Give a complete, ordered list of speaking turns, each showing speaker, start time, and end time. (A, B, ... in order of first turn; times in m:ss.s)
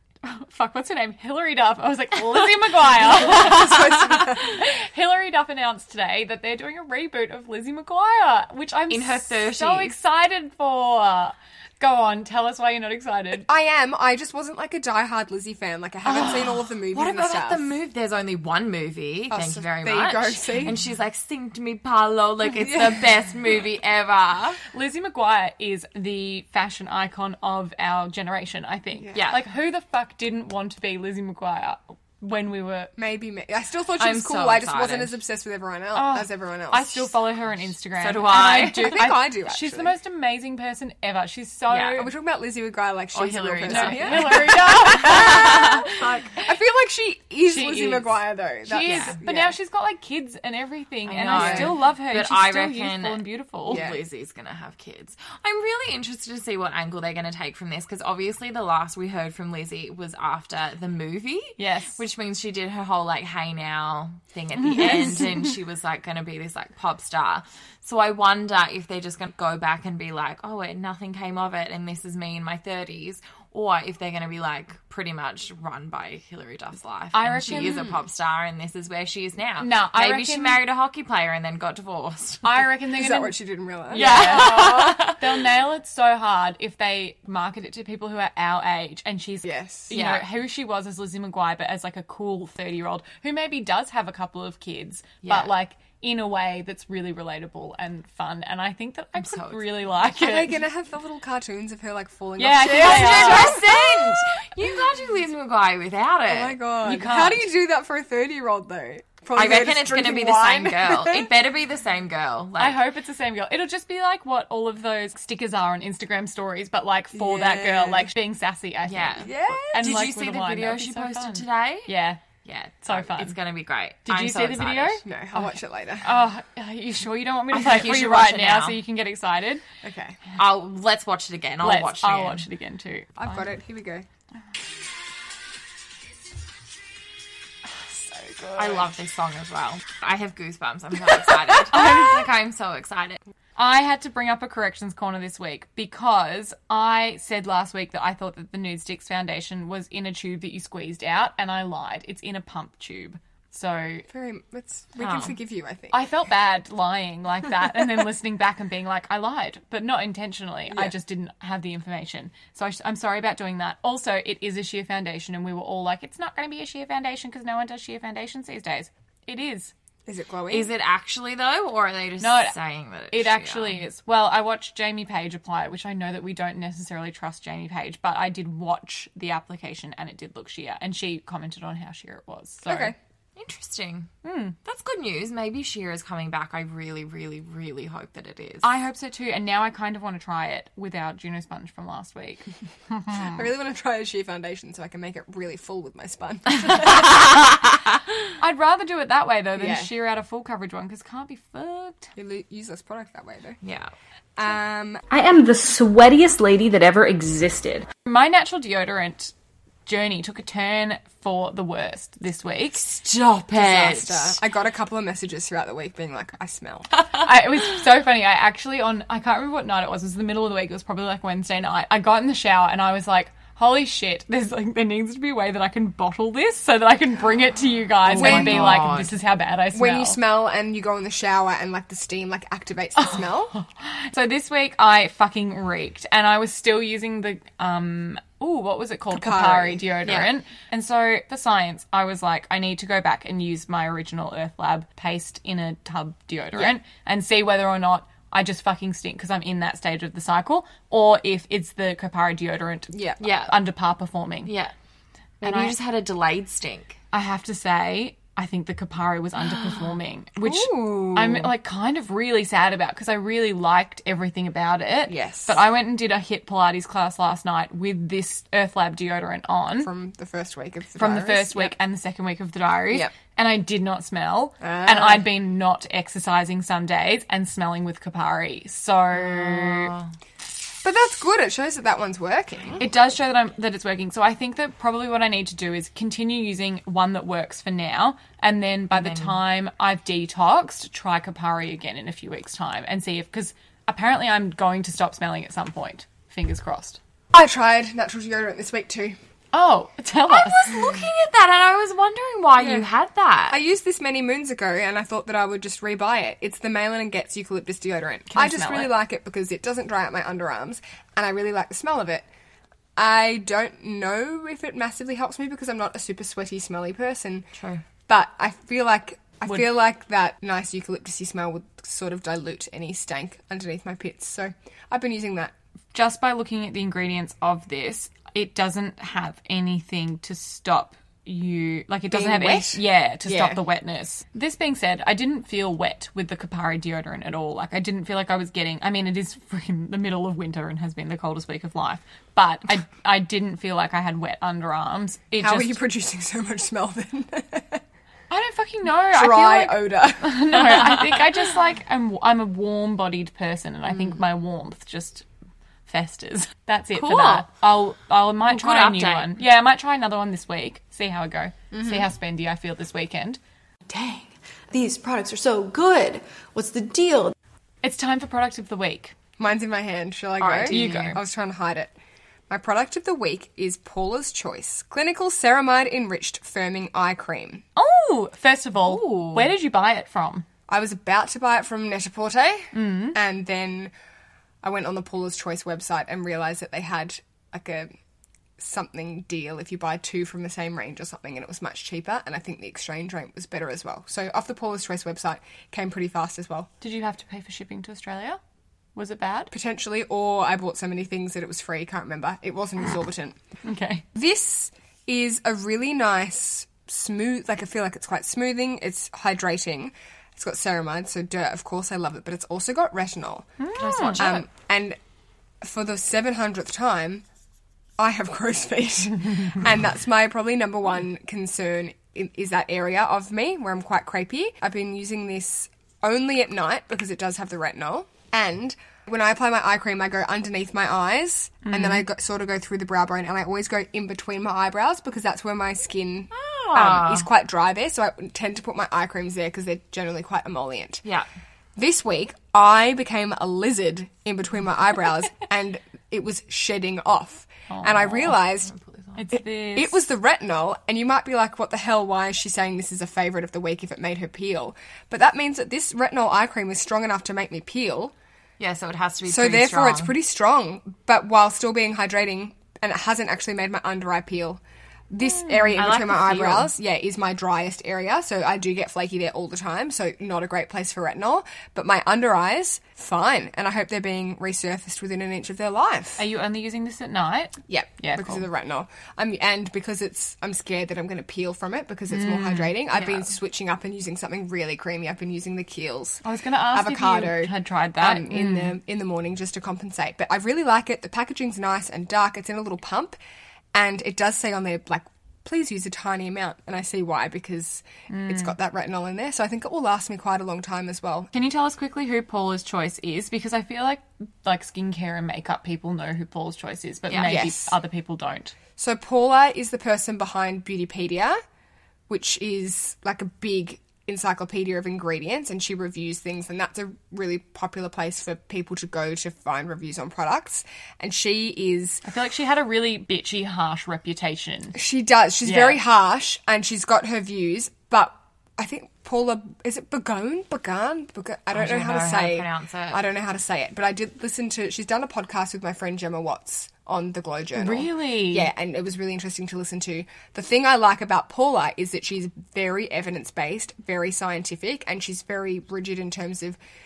0:00.2-0:13.5 A
0:03.0-0:04.6 B
0:08.9-0:10.0 C
0:13.5-0:17.8 B
0:16.1-0:24.6 C
0:19.3-0:20.8 B
0:22.7-0:23.0 B
0:24.7-0:32.9 A
0:29.0-0:29.2 B
0:29.1-0:29.4 C
0:33.0-0:37.2 B
0:34.0-0:35.2 C
0:36.0-0:42.1 A
0:38.0-0:39.0 C
0:38.3-0:40.0 B
0:41.7-0:42.0 C
0:41.9-0:49.6 B
0:43.1-0:46.1 C
0:43.7-0:46.5 A
0:47.5-0:48.1 A
0:48.6-0:53.8 A
0:48.8-0:49.2 C
0:51.1-1:22.5 C
0:51.3-0:51.8 B
0:53.7-0:54.0 B
1:01.6-1:02.0 A
1:04.6-1:05.6 A
1:17.1-1:17.9 A
1:17.5-1:18.0 B
1:19.6-1:20.6 A
1:22.4-1:40.6 A
1:22.9-1:25.1 B
1:23.9-1:25.2 C
1:29.4-1:29.9 B
1:29.9-1:30.2 C
1:35.2-1:35.5 C
1:39.2-1:39.7 C
1:40.1-1:44.2 B
1:42.4-1:43.7 A
1:42.7-1:46.6 C
1:46.3-1:51.3 B
1:46.8-1:47.5 A
1:49.4-1:52.8 C
1:52.6-2:02.2 A
1:57.1-1:58.1 B
1:58.9-2:01.9 C
1:59.2-2:00.1 B
2:02.4-2:05.0 C
2:02.8-2:03.4 A
2:04.1-2:09.6 A
2:05.0-2:06.1 B
2:07.5-2:08.8 C
2:09.8-2:10.2 B
2:10.4-2:12.4 C
2:11.6-2:13.5 A
2:13.2-2:14.1 B
2:17.8-2:18.9 A
2:18.6-2:23.2 C
2:21.3-2:22.3 A
2:23.6-2:34.1 A
2:34.1-2:36.1 B
2:35.0-2:35.4 C
2:35.9-2:49.7 A
2:50.1-2:50.7 B
2:50.5-2:53.8 C
2:52.2-2:52.6 A
2:53.1-3:03.0 A
3:02.7-3:03.0 B
3:03.4-3:04.1 C
3:04.2-3:04.6 A
3:04.6-3:08.7 C
3:08.6-3:13.5 A
3:13.1-3:17.5 B
3:18.4-3:22.1 A
3:19.6-3:19.9 B
3:22.2-3:23.6 B
3:23.6-3:23.9 C
3:24.4-3:25.0 B
3:25.2-3:27.1 D
3:28.1-3:29.3 A
3:29.9-3:32.8 A
3:32.7-3:34.4 C
3:33.5-3:36.9 B
3:37.2-3:50.2 A
3:48.1-3:49.1 C
3:48.1-3:49.0 B
3:49.7-3:53.5 B
3:53.0-4:14.5 A
3:59.1-4:00.2 B
4:12.9-4:13.2 B
4:13.2-4:13.6 C
4:14.4-4:14.7 C
4:15.4-4:17.0 C
4:15.4-4:15.8 A
4:17.1-4:29.9 A
4:19.4-4:20.0 C
4:20.4-4:21.5 B
4:25.1-4:25.6 B
4:29.8-4:31.7 B
4:31.0-4:39.9 A
4:34.6-4:35.3 B
4:39.2-4:40.1 C
4:40.8-4:42.8 B
4:42.8-4:57.0 A
4:48.9-4:49.4 C
4:57.3-4:59.2 B
4:59.5-5:01.0 A
5:00.3-5:03.6 C
5:02.6-5:02.9 B
5:03.5-5:12.3 B
5:08.3-5:08.9 A
5:13.0-5:17.5 B
5:17.6-5:17.8 C
5:18.1-5:25.5 B
5:25.9-5:45.8 A
5:32.1-5:33.6 B
5:45.4-5:47.8 B
5:48.3-5:55.2 A
5:49.1-5:51.1 B
5:53.9-5:54.2 B
5:55.9-6:03.4 A
5:56.9-5:57.5 C
5:58.5-5:59.4 C
6:01.7-6:02.1 B
6:03.9-6:07.3 E
6:07.8-6:09.2 A
6:09.4-6:11.9 B
6:10.4-6:11.2 C
6:10.7-6:11.2 A
6:12.5-6:17.6 B
6:17.8-6:20.5 A
6:18.8-6:19.5 C
6:20.7-6:23.9 B
6:22.7-6:23.2 A
6:24.6-6:27.9 B
6:28.6-6:36.7 B
6:36.8-6:38.4 A
6:39.0-6:39.5 A
6:39.5-6:43.4 B
6:43.6-6:44.0 A
6:44.1-6:53.5 B
6:53.6-6:54.4 A
6:53.8-6:54.4 C
6:54.2-6:55.0 B
6:55.6-6:57.2 B
6:58.0-7:21.0 B
7:11.6-7:12.0 A
7:16.3-7:17.3 C
7:21.8-7:28.7 B
7:27.7-7:28.4 A
7:28.6-7:29.2 C
7:29.2-7:30.0 A
7:29.8-7:38.1 B
7:38.6-7:40.2 C
7:39.3-7:56.2 B
7:45.2-7:46.6 A
7:46.3-7:46.6 C
7:56.2-7:58.5 A
7:57.7-8:06.2 B
8:02.1-8:03.2 A
8:06.2-8:08.8 A
8:06.7-8:13.2 B
8:13.7-8:21.3 B
8:18.1-8:18.6 A
8:21.3-8:28.6 A
8:27.1-8:27.4 C
8:27.2-8:27.8 B
8:28.8-8:31.4 B
8:32.1-8:42.0 B
8:42.0-8:44.8 A
8:44.8-9:06.6 B
8:45.4-8:45.8 A
8:51.5-8:53.0 C
8:57.6-8:58.5 A